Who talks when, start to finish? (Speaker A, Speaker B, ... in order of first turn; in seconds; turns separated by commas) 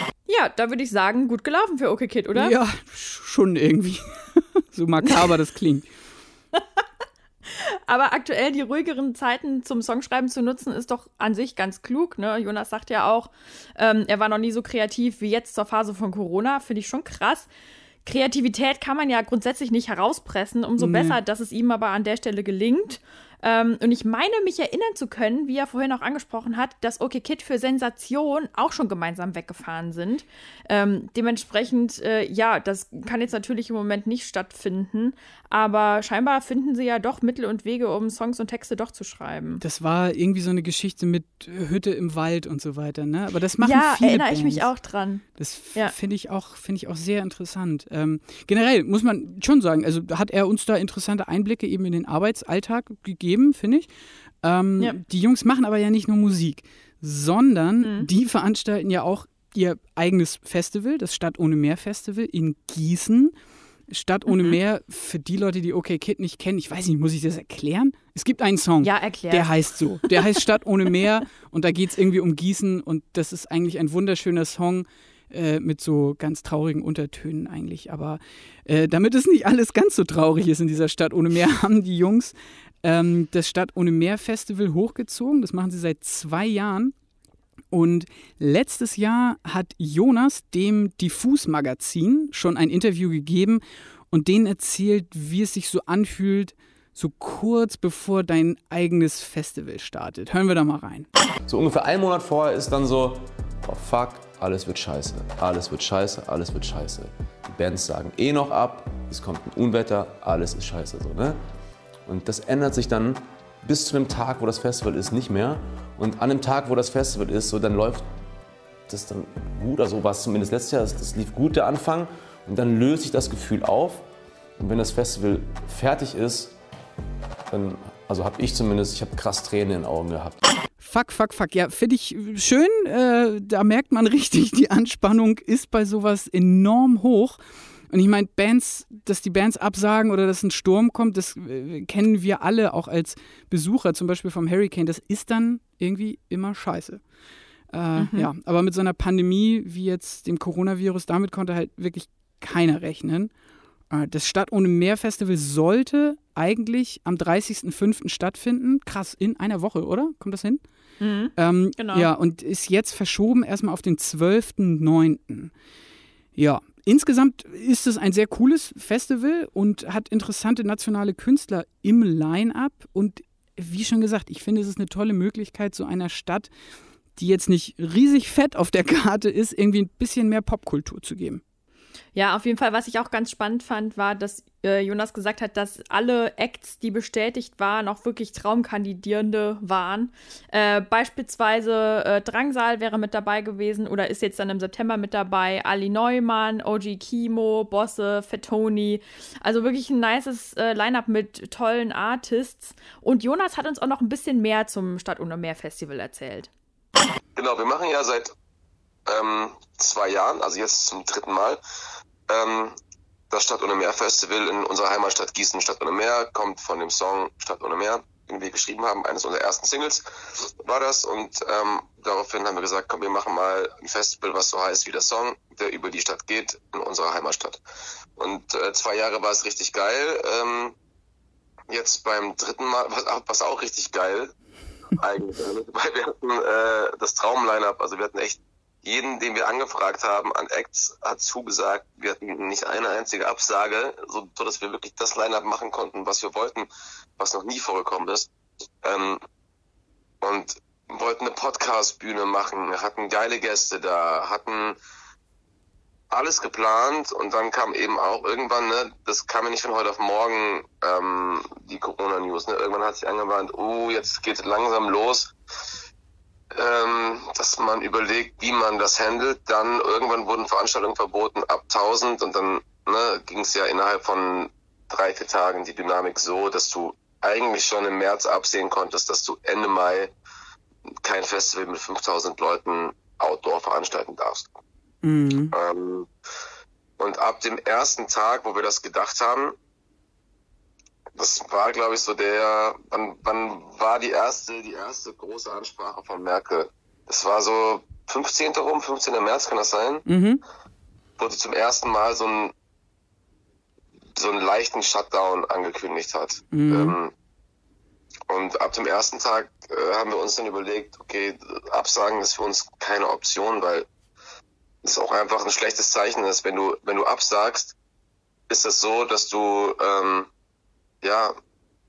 Speaker A: 0.3-2.5, Speaker B: 2.3-5.9, Speaker A: 7.5-17.5, Speaker A: 18.0-39.6, Speaker B: 20.8-21.2, Speaker B: 39.6-44.7, Speaker A: 43.6-45.2, Speaker B: 45.4-53.9, Speaker B: 54.4-63.3, Speaker A: 57.8-58.1, Speaker B: 63.9-86.9, Speaker A: 64.3-64.6, Speaker A: 68.8-70.4, Speaker B: 87.7-101.1, Speaker C: 101.5-111.4, Speaker C: 112.1-118.1, Speaker C: 118.9-124.0, Speaker C: 124.6-126.5, Speaker C: 127.5-130.4, Speaker B: 130.8-137.4, Speaker B: 137.9-147.0, Speaker B: 147.7-153.3, Speaker A: 148.0-148.3, Speaker B: 153.9-160.6, Speaker A: 161.0-162.1, Speaker B: 161.3-165.5, Speaker B: 166.3-176.5, Speaker B: 177.2-181.4, Speaker A: 182.1-206.5, Speaker D: 207.3-208.3, Speaker D: 209.1-211.6, Speaker D: 212.3-212.8, Speaker D: 213.3-227.6, Speaker D: 228.2-230.7, Speaker D: 231.7-234.3, Speaker D: 234.9-248.3, Speaker D: 248.8-249.2, Speaker D: 250.2-254.8, Speaker D: 256.1-265.3, Speaker D: 266.5-280.1, Speaker D: 281.0-284.5, Speaker B: 285.0-285.5, Speaker D: 285.5-286.1, Speaker D: 287.0-289.6, Speaker D: 291.1-300.1, Speaker B: 300.1-300.4, Speaker D: 301.2-302.5, Speaker D: 304.1-307.1, Speaker B: 306.5-307.0, Speaker D: 308.3-313.9, Speaker D: 314.8-317.7, Speaker D: 318.5-320.3, Speaker D: 321.0-321.3